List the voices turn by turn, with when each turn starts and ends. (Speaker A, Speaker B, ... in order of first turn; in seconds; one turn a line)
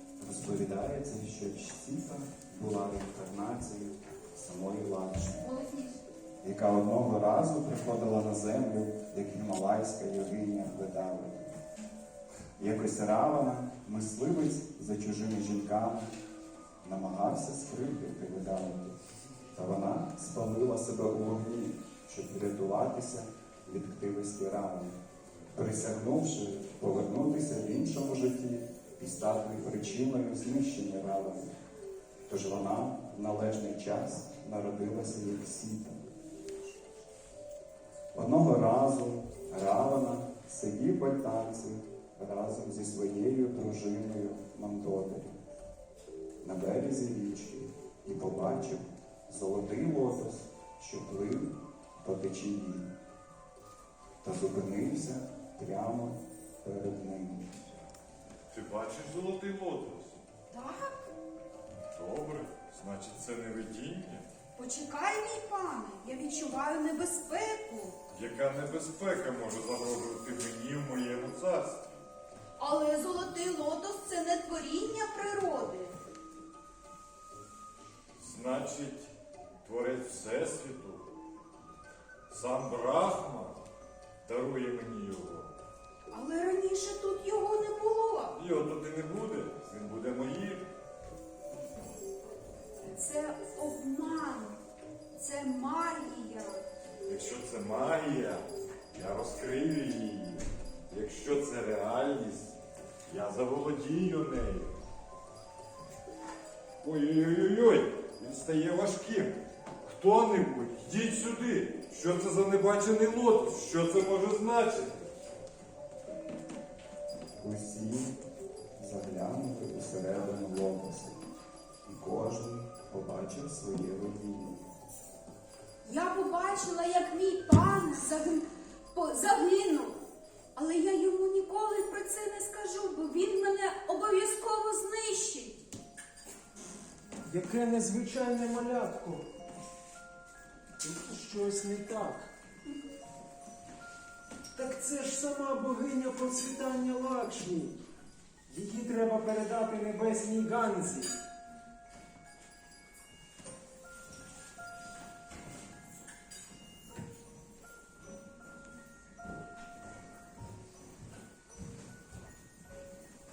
Speaker A: 0.2-5.5
Speaker B: 5.4-6.0
Speaker A: 6.4-11.5
Speaker A: 12.6-16.1
Speaker A: 16.8-19.0
Speaker A: 19.5-25.0
Speaker A: 25.5-31.5
Speaker A: 32.3-36.0
Speaker A: 38.1-45.4
Speaker A: 46.4-52.9
Speaker A: 54.2-57.5
Speaker C: 58.5-60.2
Speaker B: 60.5-61.0
Speaker C: 62.0-64.2
Speaker B: 64.6-68.0
Speaker C: 68.1-71.8
Speaker B: 72.6-75.9
Speaker C: 78.2-79.1
Speaker C: 79.6-81.1
Speaker C: 82.3-83.6
Speaker C: 84.2-85.5
Speaker B: 86.1-88.3
Speaker C: 88.3-90.7
Speaker B: 92.9-94.6
Speaker B: 95.2-96.6
Speaker C: 97.1-102.5
Speaker C: 103.1-104.8
Speaker C: 106.8-115.0
Speaker A: 117.4-118.1
Speaker A: 118.8-121.2
Speaker A: 121.8-124.6
Speaker B: 125.8-130.0
Speaker B: 130.6-135.6
Speaker D: 137.3-139.3
Speaker D: 140.8-142.3
Speaker D: 144.5-147.8
Speaker D: 148.5-151.2